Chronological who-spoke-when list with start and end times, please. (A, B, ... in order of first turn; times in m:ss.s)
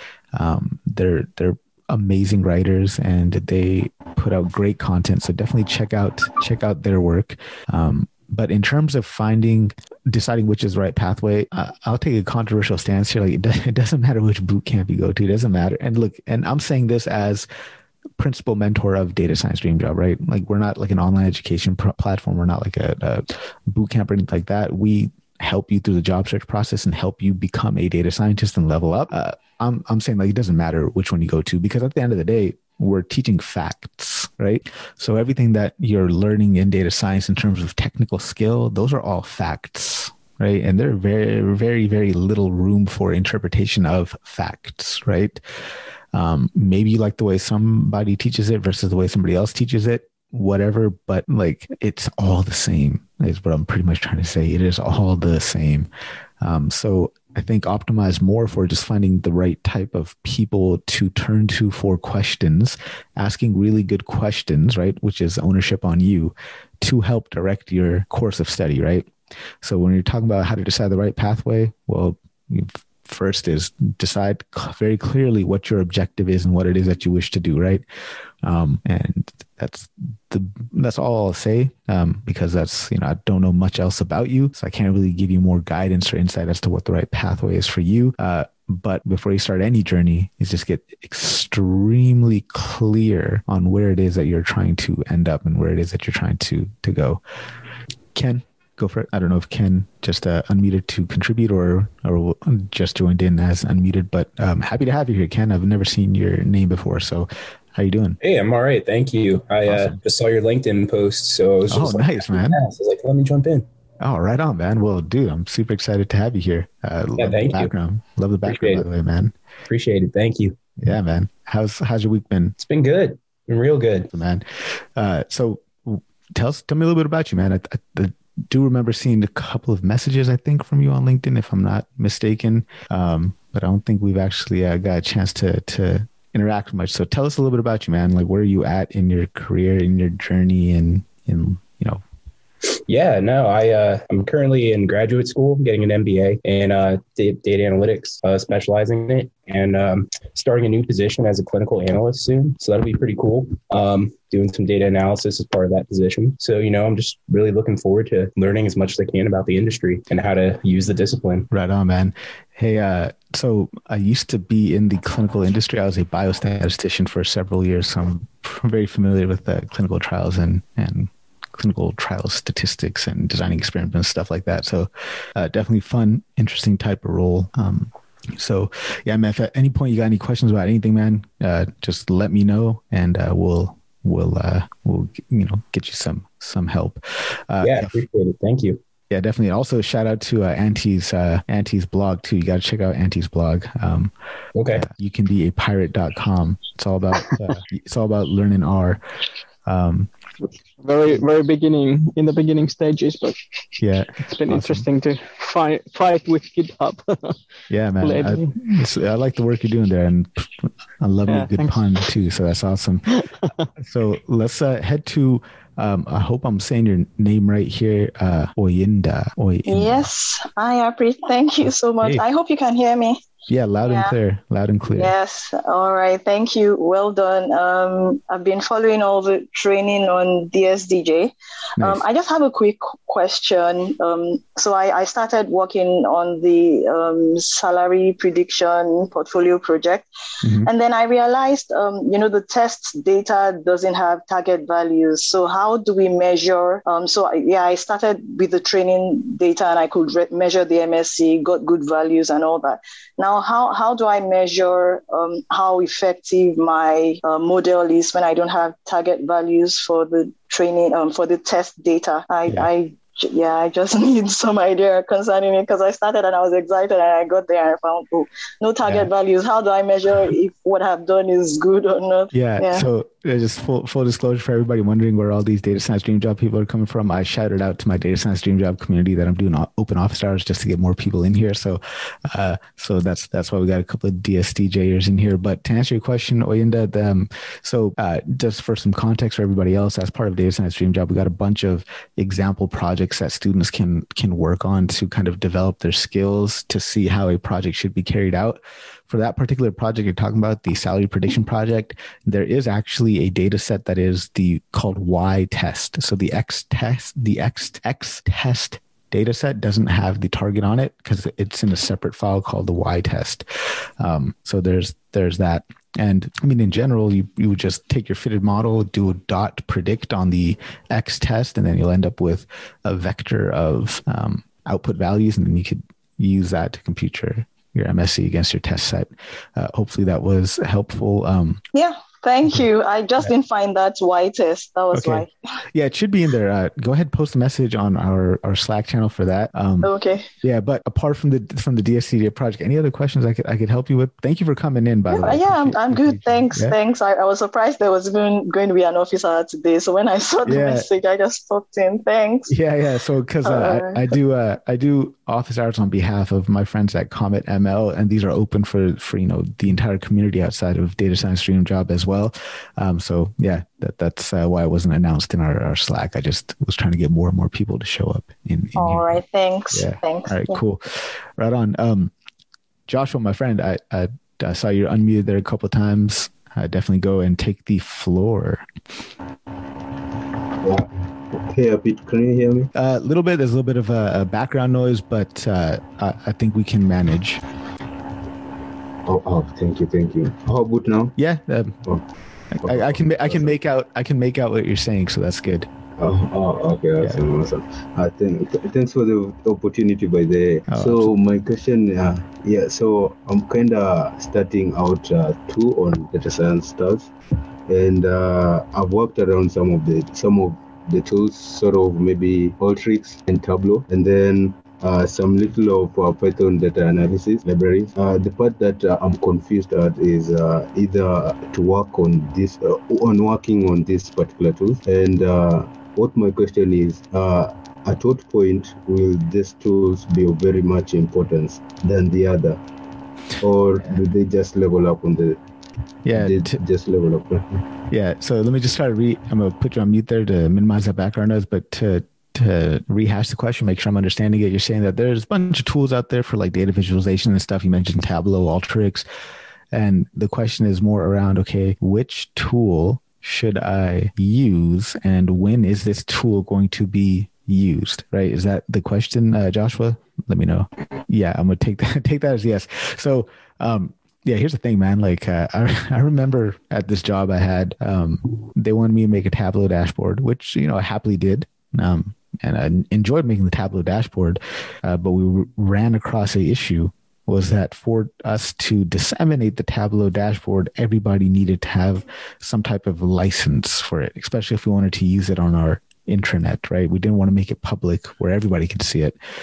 0:00.3-0:17.5 A
0:18.2-0:45.4 A
0:46.1-0:55.9 A
0:56.4-1:09.1 A
1:09.6-1:17.8 A
1:18.4-1:37.2 A
1:38.2-1:48.2 A
1:48.2-1:53.7 B
1:49.7-1:50.0 A
1:51.7-1:52.6 A
1:54.0-1:59.3 A
1:57.2-1:57.7 B
1:58.4-1:58.8 B
1:59.7-2:00.6 B
2:00.8-2:02.6 A
2:02.6-2:04.1 B
2:04.1-2:22.0 A
2:22.9-2:41.5 B
2:41.5-3:07.9 A
3:07.6-3:08.8 B
3:09.1-3:14.1 A
3:14.6-3:14.9 B
3:14.7-3:19.0 A
3:19.7-3:20.1 A
3:20.8-3:23.4 C
3:23.8-3:24.9 A
3:24.2-3:27.4 C
3:27.7-3:33.1 A
3:28.0-3:28.5 C
3:31.3-3:31.8 C
3:33.1-3:33.7 C
3:33.8-3:40.1 A
3:39.6-3:43.2 D
3:43.5-3:45.1 A
3:43.8-3:44.1 D
3:44.9-4:00.1 D
3:51.8-3:52.0 A
4:00.4-4:00.7 A
4:00.6-4:32.9 D
4:32.3-5:13.4 A
5:14.0-5:31.6 A
5:31.7-5:35.3 D
5:34.9-5:39.9 A
5:39.8-5:40.3 D
5:40.4-5:46.8 A
5:45.1-5:52.6 D
5:50.4-5:50.9 A
5:52.5-6:09.1 A
5:53.4-5:54.0 D
6:08.8-6:10.6 D
6:09.7-6:12.1 A
6:12.9-6:18.7 A
6:20.6-6:22.7 E
6:22.7-6:27.4 A
6:29.1-6:31.2 E
6:31.2-6:31.8 A
6:32.5-6:35.7 A
6:32.6-6:33.5 E
6:36.0-6:47.1 E
6:40.7-6:41.1 A
6:47.7-7:12.6 E
7:13.4-7:15.4 E
7:16.0-7:16.6 A
7:16.1-7:17.6 E
7:17.9-7:29.1 A
7:29.7-8:09.2 A